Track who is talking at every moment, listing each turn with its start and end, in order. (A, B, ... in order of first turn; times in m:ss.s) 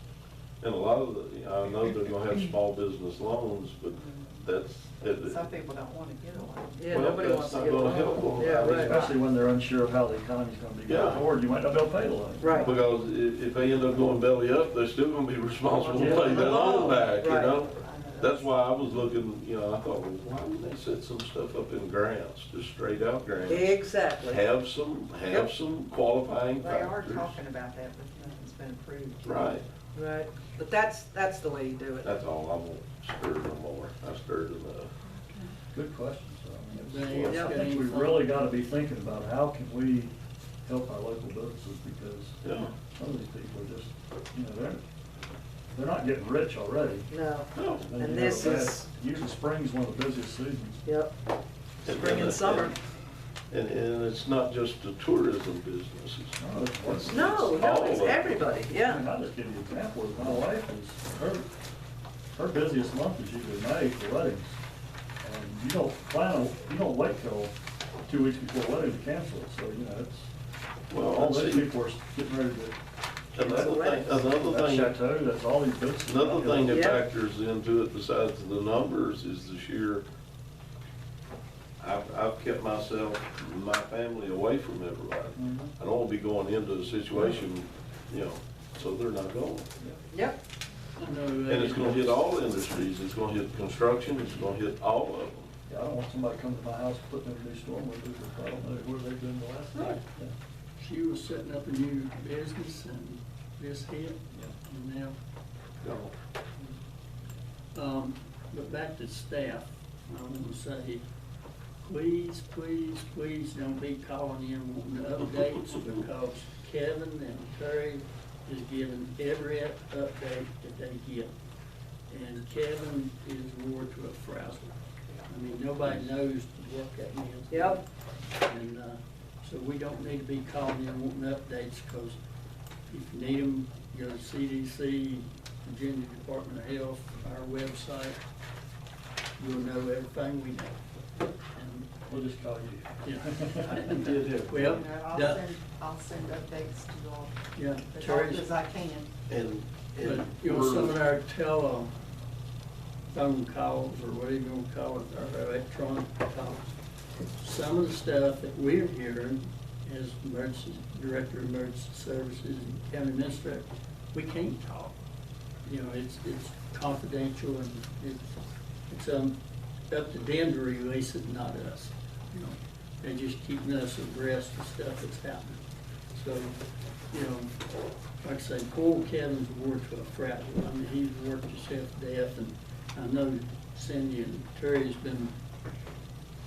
0:00.6-0:05.4 A
0:04.0-0:04.4 B
0:05.2-0:09.2 B
0:06.8-0:09.0 C
0:06.9-0:09.1 A
0:08.6-0:12.7 D
0:10.9-0:11.2 A
0:12.4-0:12.7 C
0:12.6-0:23.7 A
0:15.7-0:18.5 B
0:16.0-0:16.4 D
0:16.2-0:17.6 C
0:23.5-0:24.5 C
0:24.2-0:27.4 A
0:26.6-0:29.6 B
0:29.2-0:29.6 A
0:30.0-0:32.1 C
0:32.0-0:34.9 A
0:35.1-0:35.5 E
0:35.7-0:40.1 D
0:36.7-0:38.4 E
0:37.2-0:37.6 C
0:40.6-0:44.8 D
0:42.4-0:42.7 A
0:45.7-0:47.1 D
0:47.1-0:48.9 C
0:47.6-0:47.9 A
0:47.8-0:50.8 D
0:50.8-0:51.1 C
0:51.8-0:52.8 A
0:51.8-0:52.8 C
0:53.5-0:58.4 A
0:56.4-0:57.9 D
0:57.1-0:59.0 C
0:58.8-1:01.5 D
1:02.3-1:04.6 D
1:05.2-1:07.5 D
1:08.1-1:10.3 D
1:10.9-1:11.7 A
1:11.1-1:12.8 D
1:13.4-1:15.0 A
1:13.4-1:16.8 D
1:13.4-1:14.1 C
1:16.0-1:20.0 A
1:16.6-1:17.0 C
1:21.8-1:29.7 A
1:25.4-1:25.7 D
1:27.1-1:27.4 D
1:30.1-1:30.4 C
1:31.0-1:32.2 E
1:31.5-1:35.5 A
1:35.7-1:40.3 D
1:40.8-1:45.2 E
1:45.8-1:46.1 A
1:47.7-1:51.0 E
1:51.8-2:01.3 E
2:02.1-2:07.8 E
2:07.5-2:07.8 C
2:08.4-2:12.2 E
2:12.9-2:18.2 E
2:19.4-2:21.9 E
2:22.1-2:24.2 D
2:23.0-2:25.5 E
2:23.8-2:24.8 A
2:24.6-2:27.4 B
2:27.6-2:28.5 E
2:27.9-2:29.1 B
2:29.3-2:31.0 A
2:30.0-2:31.9 E
2:33.1-2:36.8 E
2:37.4-2:45.0 E
2:45.6-2:48.4 E
2:48.9-2:49.4 E
2:49.9-2:55.6 E
2:56.1-2:56.6 E
2:57.1-2:57.5 E
2:58.2-3:05.3 E